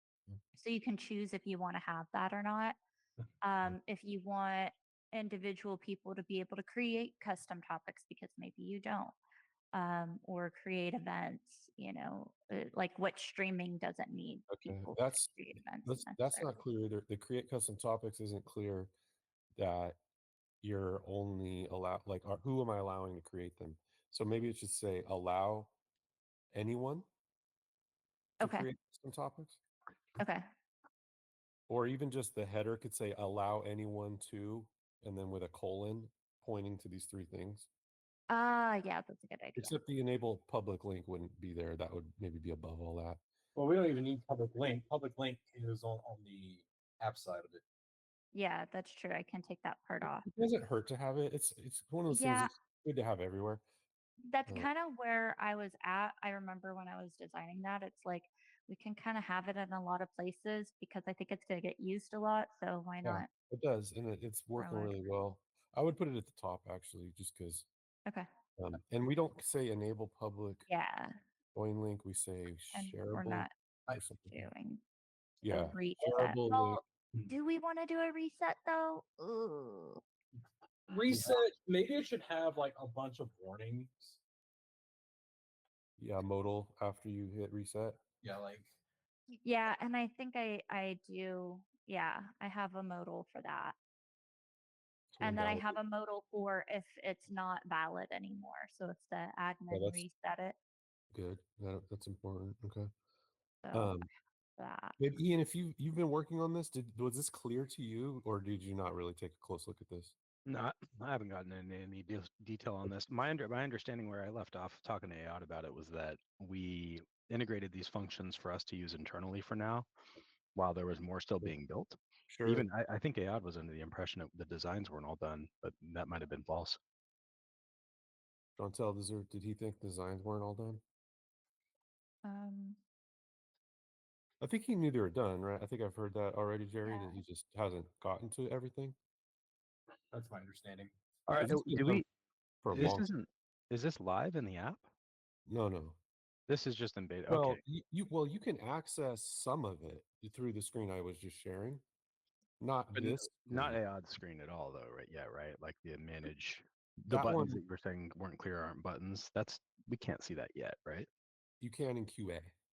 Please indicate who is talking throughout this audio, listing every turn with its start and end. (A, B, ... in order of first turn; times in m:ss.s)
0:00.6-0:02.8 A
0:03.4-0:09.2 A
0:09.7-0:16.5 A
0:14.5-0:18.9 B
0:19.6-0:20.0 B
0:20.6-0:25.7 B
0:26.5-0:27.0 B
0:28.4-0:28.7 A
0:28.4-0:29.6 B
0:30.2-0:30.4 A
0:31.7-0:37.7 B
0:38.3-0:39.7 A
0:39.6-0:43.2 B
0:43.6-0:47.6 C
0:48.3-0:50.3 A
0:50.0-0:53.6 B
0:52.1-0:52.5 A
0:54.3-1:03.3 A
1:03.0-1:07.7 B
1:04.6-1:05.0 A
1:08.6-1:10.7 B
1:10.7-1:11.2 A
1:11.6-1:14.5 B
1:12.7-1:14.8 A
1:15.4-1:16.8 B
1:15.5-1:20.0 A
1:20.9-1:24.2 C
1:26.0-1:28.0 B
1:28.2-1:28.7 C
1:29.4-1:33.8 A
1:35.2-1:35.8 B
1:35.2-1:40.6 A
1:39.7-1:40.0 B
1:41.1-1:42.9 B
1:43.6-1:44.1 A
1:43.7-1:44.1 B
1:44.6-1:45.0 A
1:45.0-1:50.2 B
1:50.5-1:59.9 D
2:00.6-2:06.8 D
2:02.3-2:02.7 B
2:08.6-2:10.8 B
2:12.2-2:12.8 A
2:14.4-2:19.0 B
2:16.9-2:17.2 A
2:20.1-2:20.9 C
2:21.3-2:22.1 D
2:21.3-2:22.0 B
2:22.6-2:23.1 B
2:22.7-2:24.9 D
2:25.5-2:26.0 B
2:26.5-2:27.6 D
2:27.3-2:31.8 B
2:32.6-2:33.8 B
2:32.9-2:41.1 D
2:37.1-2:37.6 B
2:41.6-2:42.5 B